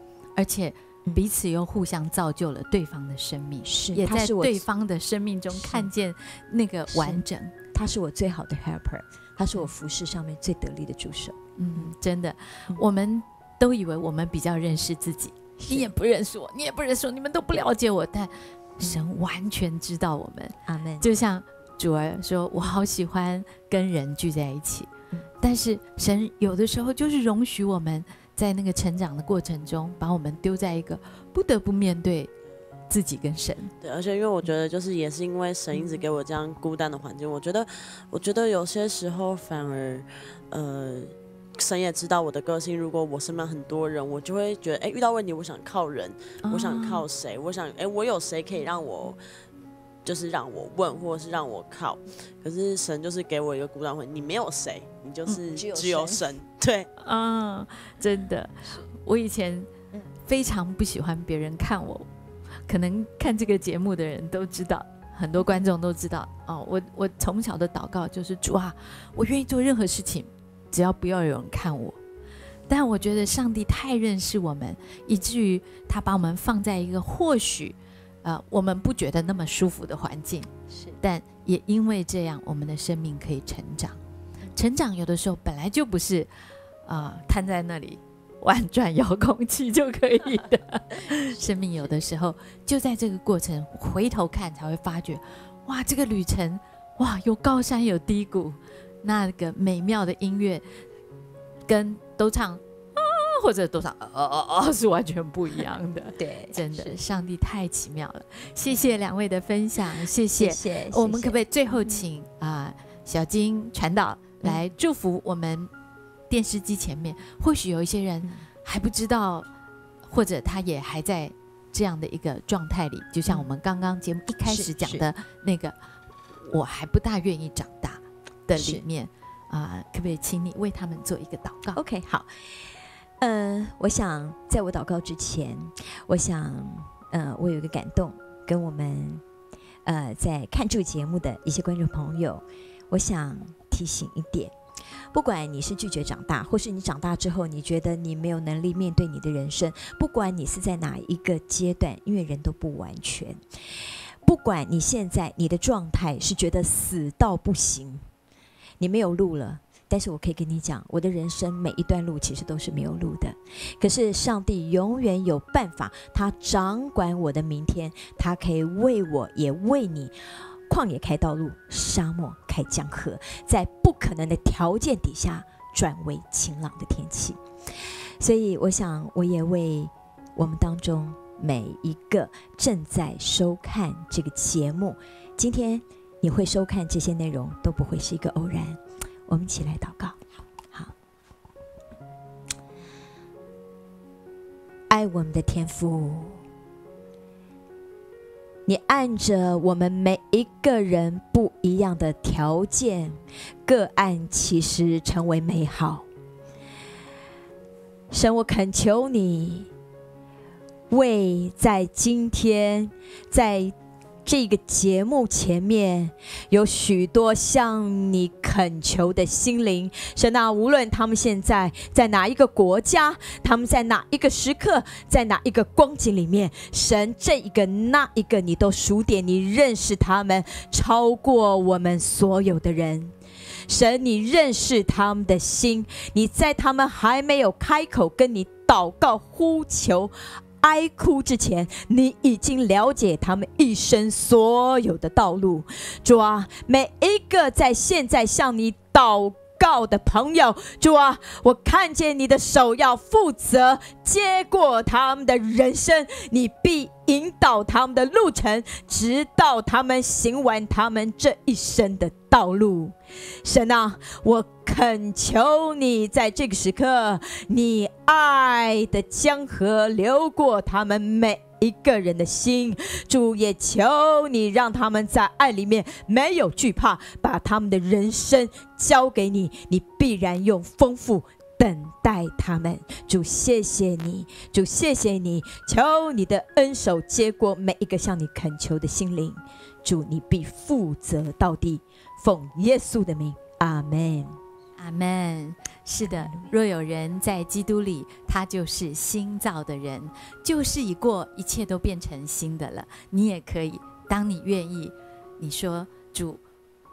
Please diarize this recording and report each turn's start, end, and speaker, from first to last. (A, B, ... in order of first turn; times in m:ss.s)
0:00.4-0:07.5 A
0:03.6-0:04.6 B
0:05.5-0:05.9 B
0:06.9-0:11.9 B
0:11.6-0:24.9 A
0:15.6-0:15.9 B
0:20.6-0:21.1 B
0:25.4-0:32.3 A
0:32.9-0:33.7 A
0:33.8-0:49.2 C
0:46.4-0:47.0 A
0:50.0-0:56.9 C
0:55.5-0:56.2 B
0:57.0-0:59.7 A
1:00.2-1:02.1 A
1:02.7-1:12.0 A
1:12.7-1:24.0 A
1:20.7-1:21.0 B
1:24.5-1:26.3 A
1:26.8-1:40.8 A
1:41.7-1:55.7 A
1:46.2-1:47.0 B
1:50.0-1:52.0 B
1:56.3-1:59.5 A
2:00.0-2:05.8 A
2:04.4-2:05.0 B
2:06.4-2:11.8 A
2:08.6-2:08.8 B
2:11.7-2:12.3 B
2:13.2-2:19.2 B
2:19.8-2:24.5 B
2:25.1-2:38.0 B
2:38.8-2:50.1 B
2:50.7-3:10.9 B
3:14.9-3:16.4 B
3:18.6-3:26.1 B
3:28.1-3:29.7 B
3:30.9-3:53.1 B
3:53.7-4:54.4 B
4:54.8-5:06.4 A
4:56.0-4:56.5 B